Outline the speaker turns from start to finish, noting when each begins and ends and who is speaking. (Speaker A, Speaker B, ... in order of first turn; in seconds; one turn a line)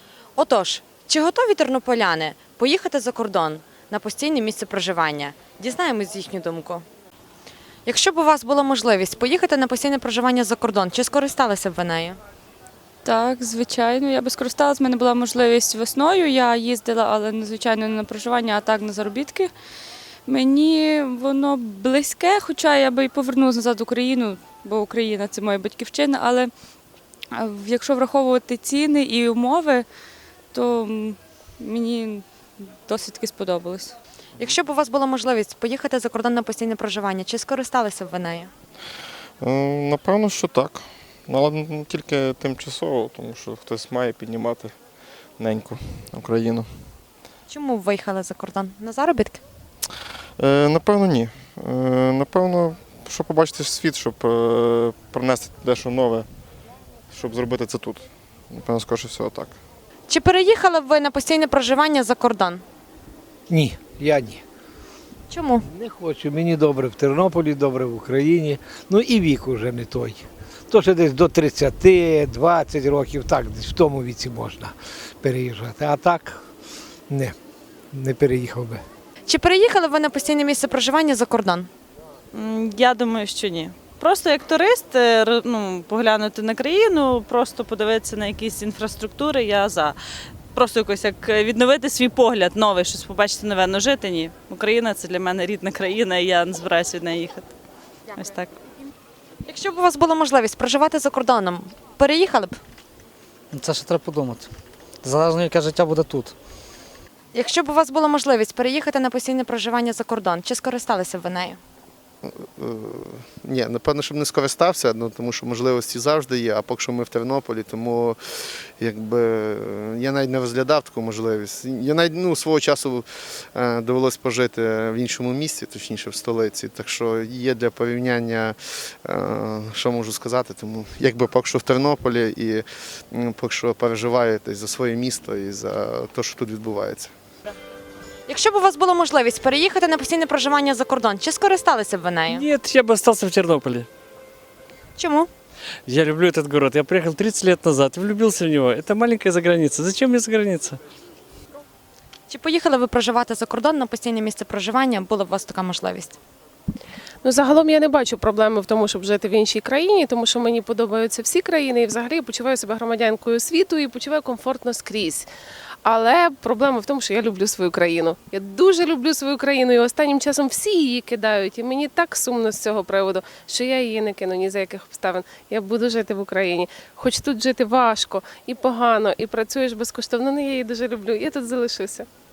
Speaker A: 0.4-6.8
Speaker A: 7.8-12.2
Speaker B: 13.0-19.5
Speaker B: 20.3-26.5
Speaker B: 27.3-29.8
Speaker B: 30.5-32.2
Speaker B: 32.8-33.9
Speaker A: 34.4-38.5
Speaker C: 39.4-44.7
Speaker C: 45.4-46.7
Speaker A: 47.5-49.4
Speaker C: 50.4-56.2
Speaker C: 57.1-59.5
Speaker A: 60.1-62.6
Speaker D: 63.5-64.4
Speaker A: 65.3-65.6
Speaker D: 65.7-76.4
Speaker D: 77.1-77.3
Speaker D: 77.9-78.8
Speaker A: 79.3-81.7
Speaker E: 82.3-90.0
Speaker E: 90.5-97.5
Speaker E: 98.1-98.6
Speaker A: 99.5-102.6
Speaker F: 103.5-104.5
Speaker F: 105.0-106.3
Speaker A: 107.3-111.6
Speaker G: 112.2-118.2
Speaker G: 118.8-137.1
Speaker A: 138.3-142.4
Speaker H: 142.3-143.9
Speaker A: 145.0-145.3
Speaker H: 145.9-150.8
Speaker A: 152.3-156.2
Speaker I: 157.2-165.3
Speaker I: 165.8-182.1